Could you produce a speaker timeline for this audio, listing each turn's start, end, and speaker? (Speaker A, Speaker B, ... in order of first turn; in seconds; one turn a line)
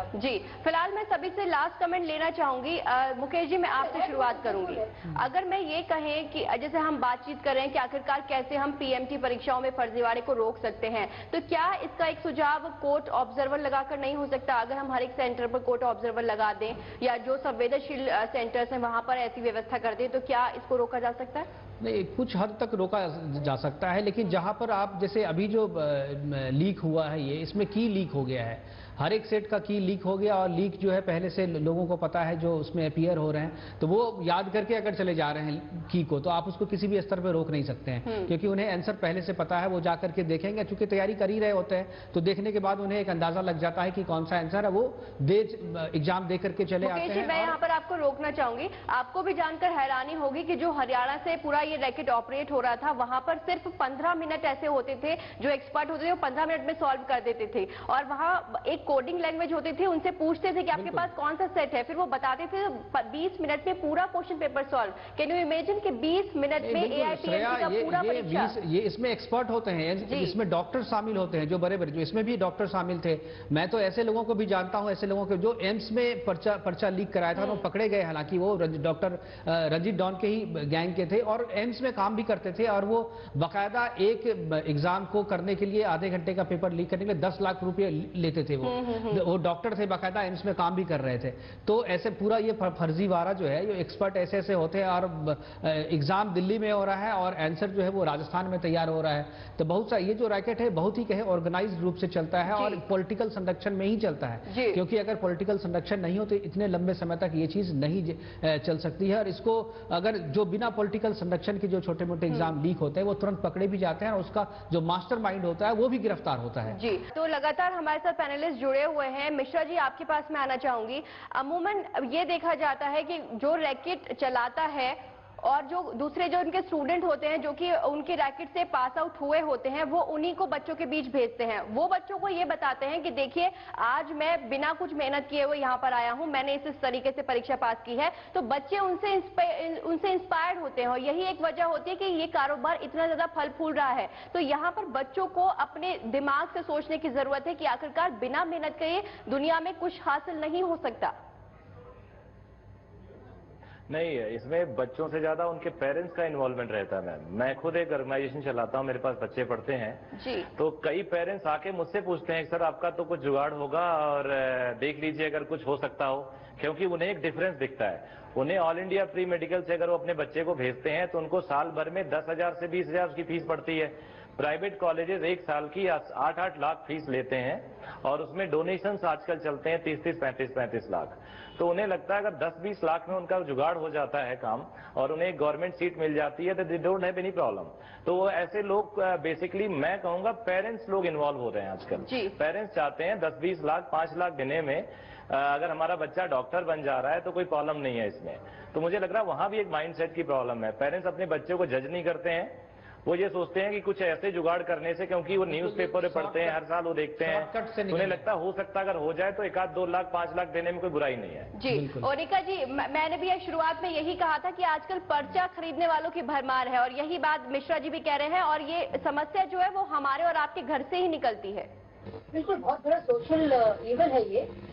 Speaker A: 0.1-21.5
Speaker B: 3.7-5.0
Speaker C: 21.8-47.6
Speaker A: 38.1-38.3
Speaker A: 46.8-68.5
Speaker C: 60.7-61.1
Speaker C: 66.6-116.8
Speaker A: 70.0-70.3
Speaker A: 77.4-77.7
Speaker A: 88.6-89.3
Speaker A: 102.5-102.8
Speaker A: 104.5-104.8
Speaker A: 116.7-151.2
Speaker D: 153.9-211.5
Speaker A: 160.1-160.5
Speaker A: 192.1-192.3
Speaker C: 205.5-206.6
Speaker C: 207.2-208.3
Speaker A: 211.6-221.7
Speaker C: 211.7-212.1
Speaker B: 222.3-224.5